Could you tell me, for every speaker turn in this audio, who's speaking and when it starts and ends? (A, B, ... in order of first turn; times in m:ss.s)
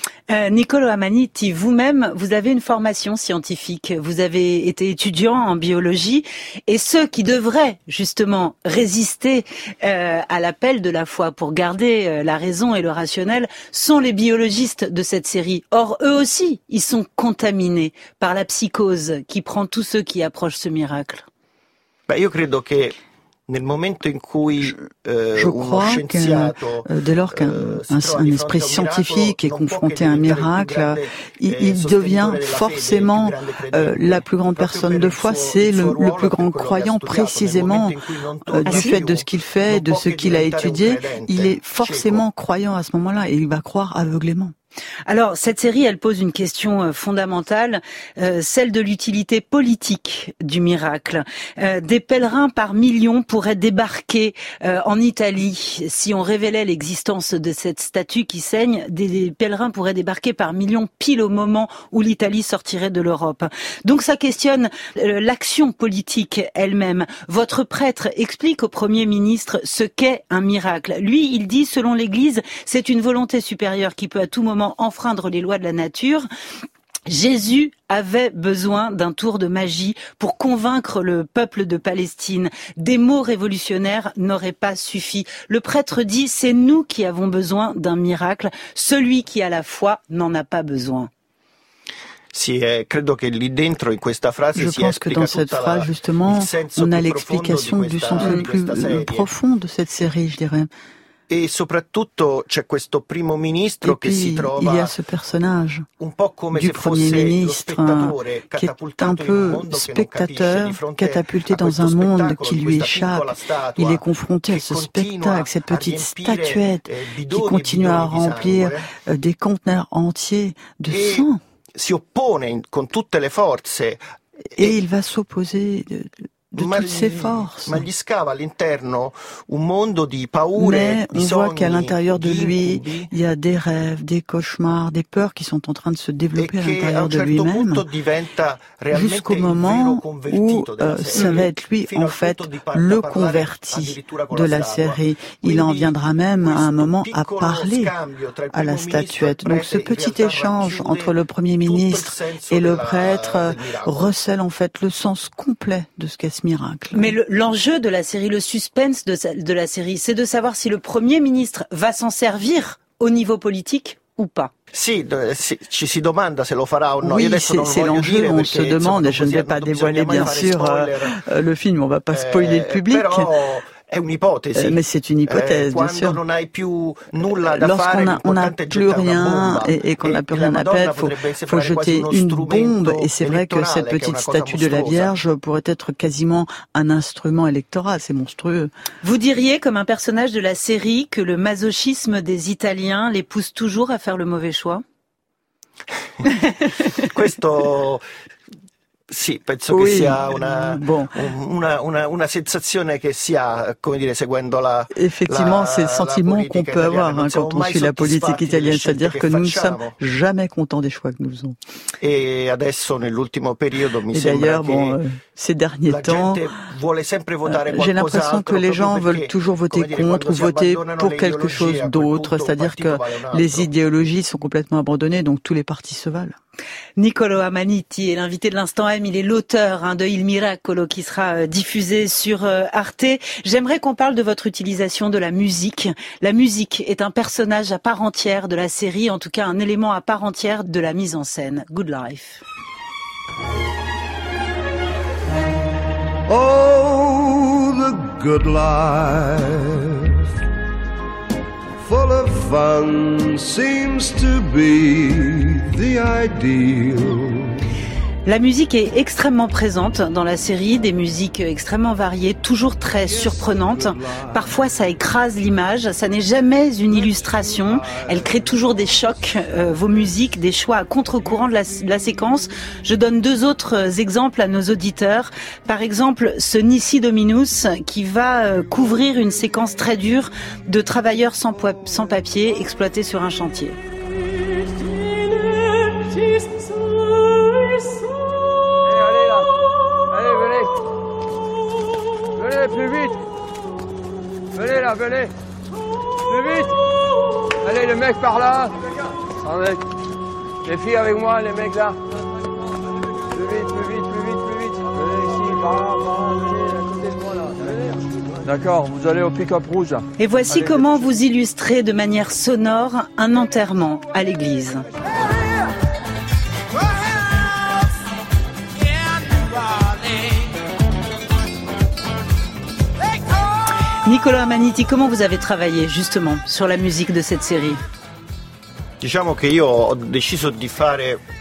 0:00.3-0:21.2 A
0:22.1-0:22.9 B
0:23.5-0:42.2 B
0:25.3-0:44.5 C
0:38.7-0:39.0 A
0:45.1-1:16.3 A
1:17.1-1:31.1 A
1:32.3-1:39.3 B
1:34.6-1:40.7 C
1:38.2-1:38.4 A
1:41.3-1:45.0 B
1:43.8-1:45.9 C
1:46.0-1:58.9 B
1:46.5-2:01.4 C
2:00.9-2:04.0 B
2:04.6-2:07.9 C
2:06.6-2:13.1 B
2:10.6-2:17.8 C
2:16.4-2:34.1 B
2:18.9-2:27.9 C
2:28.5-2:37.1 C
2:36.9-2:44.5 A
2:44.7-2:51.2 B
2:47.0-2:53.3 C
2:52.1-3:05.2 B
2:54.6-2:56.2 C
2:57.2-3:08.7 C
3:09.0-3:14.8 A
3:17.1-3:18.0 B
3:19.1-3:30.0 B
3:19.7-3:21.2 C
3:24.9-3:31.6 C
3:32.0-3:35.0 B
3:34.1-3:36.5 C
3:35.9-3:43.7 B
3:37.4-3:46.4 C
3:47.0-4:02.4 A
4:06.3-4:10.2 D
4:11.8-4:17.6 D
4:18.2-4:43.8 A
4:23.0-4:24.5 D
4:27.0-4:28.9 D
4:49.0-4:49.4 E
4:50.1-4:50.7 E
4:52.4-4:53.2 E
4:54.6-4:55.3 E
4:56.3-4:56.8 E
4:57.6-4:58.7 E
4:59.4-4:59.8 E
5:00.6-5:02.0 E
5:03.3-5:10.0 E
5:10.2-5:14.8 A
5:24.0-5:27.8 A
5:29.0-5:31.2 B